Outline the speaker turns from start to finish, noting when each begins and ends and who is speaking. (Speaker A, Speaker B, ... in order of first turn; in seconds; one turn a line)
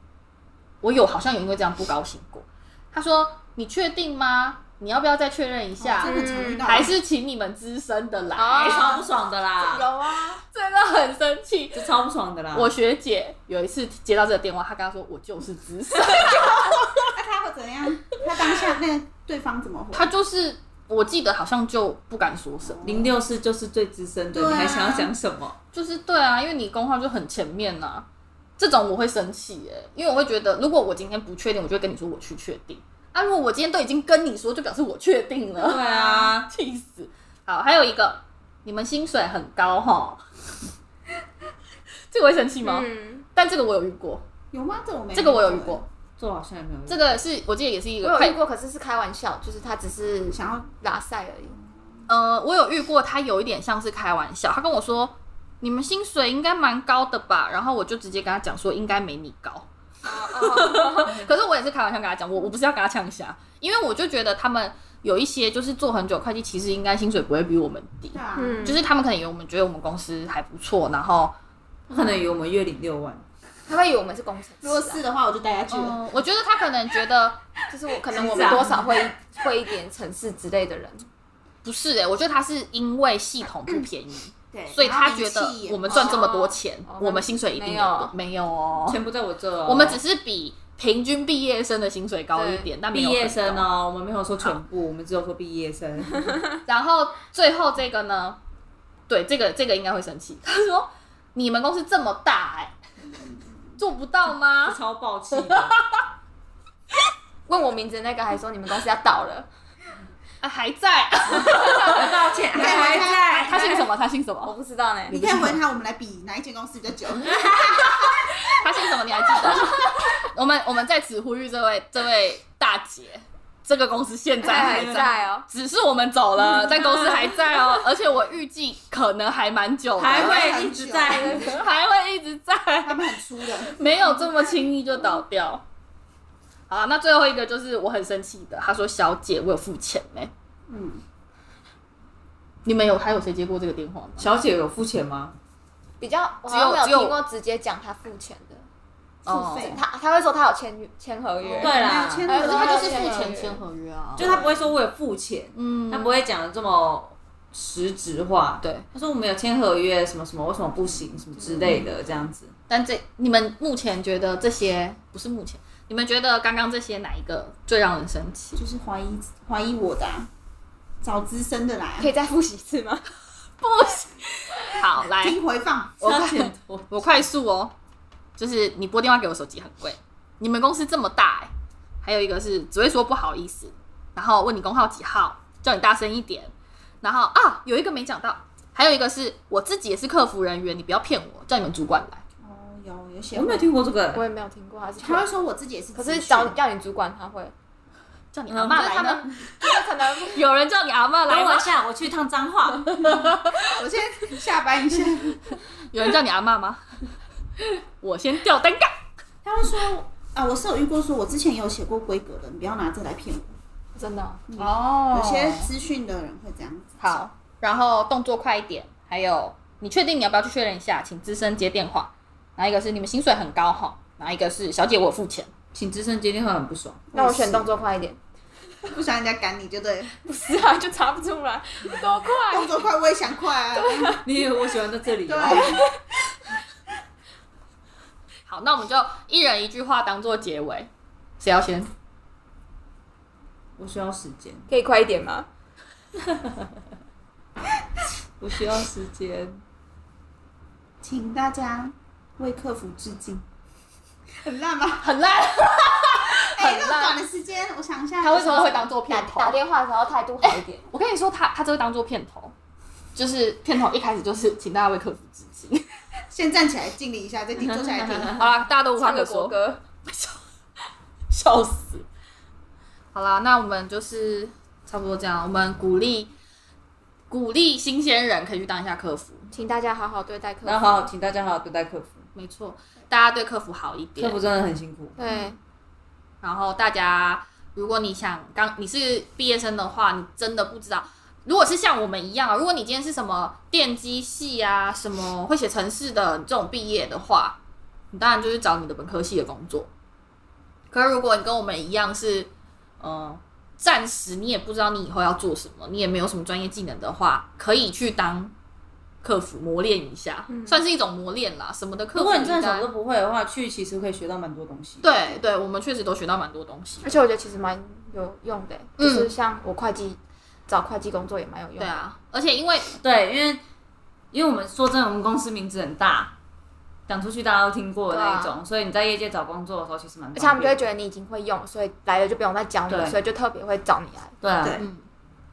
Speaker A: 0.8-9.0
Speaker B: 5.8-6.9
Speaker C: 6.0-6.9
Speaker C: 8.3-9.1
Speaker D: 8.5-9.9
Speaker B: 9.7-10.4
Speaker C: 9.7-10.3
Speaker A: 10.5-11.8
Speaker D: 11.7-12.7
Speaker A: 12.5-17.1
Speaker B: 17.1-20.1
Speaker A: 19.9-23.0
Speaker B: 22.6-23.1
Speaker D: 22.8-25.6
Speaker B: 24.3-25.1
Speaker A: 25.7-28.1
Speaker A: 28.6-35.8
Speaker D: 35.6-36.5
Speaker B: 35.7-36.4
Speaker A: 36.4-40.2
Speaker A: 42.1-44.2
Speaker C: 42.6-43.2
Speaker B: 44.5-45.8
Speaker A: 45.1-45.9
Speaker D: 46.2-47.1
Speaker A: 46.9-48.4
Speaker C: 48.0-51.5
Speaker B: 50.3-50.7
Speaker B: 51.5-51.8
Speaker A: 52.1-59.7
Speaker C: 60.0-61.2
Speaker A: 60.3-71.3
Speaker B: 68.1-68.7
Speaker C: 68.3-68.8
Speaker D: 71.9-73.2
Speaker C: 73.7-75.0
Speaker B: 74.6-76.1
Speaker A: 75.7-77.4
Speaker C: 77.7-81.1
Speaker B: 78.1-79.0
Speaker D: 78.1-78.8
Speaker A: 81.6-89.0
Speaker B: 84.5-86.3
Speaker C: 85.9-88.1
Speaker D: 88.9-90.0
Speaker A: 89.7-93.7
Speaker C: 92.3-92.7
Speaker D: 92.9-96.4
Speaker A: 96.7-98.4
Speaker A: 99.1-102.7
Speaker A: 103.8-104.8
Speaker D: 104.6-105.8
Speaker A: 105.3-106.0
Speaker C: 107.5-109.5
Speaker A: 110.4-112.0
Speaker D: 111.4-113.8
Speaker C: 111.5-112.0
Speaker B: 112.5-113.6
Speaker A: 112.6-114.5
Speaker C: 114.4-115.2
Speaker B: 115.1-118.3
Speaker D: 115.1-115.5
Speaker D: 117.3-118.1
Speaker A: 118.5-130.5
Speaker C: 124.4-125.5
Speaker D: 124.5-125.1
Speaker D: 126.5-127.4
Speaker D: 130.0-131.5
Speaker B: 130.0-131.6
Speaker C: 131.1-131.6
Speaker A: 131.3-135.6
Speaker B: 132.8-133.8
Speaker A: 136.7-140.3
Speaker B: 140.7-141.0
Speaker A: 142.6-144.3
Speaker D: 144.2-145.3
Speaker C: 146.0-148.6
Speaker A: 146.5-147.2
Speaker A: 149.2-149.8
Speaker C: 149.3-153.6
Speaker B: 149.3-149.8
Speaker B: 151.6-153.3
Speaker D: 151.6-152.3
Speaker A: 152.3-154.4
Speaker D: 154.2-162.5
Speaker B: 154.2-154.7
Speaker A: 155.5-156.1
Speaker B: 161.4-161.9
Speaker A: 162.7-168.6
Speaker B: 168.6-170.3
Speaker B: 171.0-172.1
Speaker C: 172.0-173.0
Speaker A: 173.6-175.4
Speaker B: 175.0-176.0
Speaker A: 176.0-177.7
Speaker D: 176.0-176.9
Speaker A: 178.4-181.5
Speaker A: 182.0-192.2
Speaker B: 192.4-193.7
Speaker D: 193.3-194.2
Speaker C: 194.1-195.3
Speaker B: 195.0-196.5
Speaker C: 195.9-197.5
Speaker A: 198.3-199.3
Speaker D: 198.5-199.1
Speaker C: 198.7-200.4
Speaker A: 200.2-201.7
Speaker D: 201.3-203.2
Speaker A: 203.0-203.8
Speaker B: 203.6-205.5
Speaker A: 205.9-206.9
Speaker A: 207.6-209.0
Speaker B: 209.4-213.5
Speaker C: 213.9-214.4
Speaker B: 214.5-217.2
Speaker A: 214.6-215.7
Speaker A: 217.0-225.5
Speaker D: 225.7-227.1
Speaker C: 227.1-228.2
Speaker B: 227.2-227.7
Speaker B: 228.8-230.1
Speaker C: 230.2-232.7
Speaker B: 232.5-234.2
Speaker C: 233.7-234.2
Speaker D: 234.2-235.8
Speaker B: 235.2-235.8
Speaker C: 235.4-235.9
Speaker A: 238.5-241.9
Speaker D: 243.8-244.7
Speaker C: 244.7-245.5
Speaker D: 246.2-246.7
Speaker D: 248.4-249.6
Speaker B: 251.0-253.4
Speaker B: 254.4-255.1
Speaker A: 255.0-257.2
Speaker B: 256.3-258.9
Speaker A: 258.2-259.6
Speaker C: 258.3-260.8
Speaker A: 260.4-262.5
Speaker A: 263.1-265.9
Speaker B: 266.3-268.4
Speaker D: 268.0-268.3
Speaker A: 268.3-270.4
Speaker C: 269.0-269.8
Speaker A: 271.3-272.0
Speaker A: 273.1-276.3
Speaker A: 277.3-279.5
Speaker C: 279.5-281.1
Speaker D: 280.6-282.2
Speaker A: 282.3-284.4
Speaker D: 284.2-285.2
Speaker C: 285.2-285.6
Speaker A: 286.4-297.6
Speaker A: 298.1-299.9
Speaker A: 300.9-308.5
Speaker A: 309.2-312.8
Speaker C: 310.5-310.8
Speaker D: 312.1-315.1
Speaker A: 315.0-317.2
Speaker C: 317.0-322.0
Speaker A: 319.0-319.3
Speaker A: 321.8-322.9
Speaker D: 323.0-323.6
Speaker D: 324.3-326.3
Speaker D: 327.1-330.8
Speaker C: 328.1-328.5
Speaker C: 330.3-334.4
Speaker D: 332.9-333.2
Speaker D: 334.4-334.8
Speaker B: 334.6-334.9
Speaker A: 334.8-335.0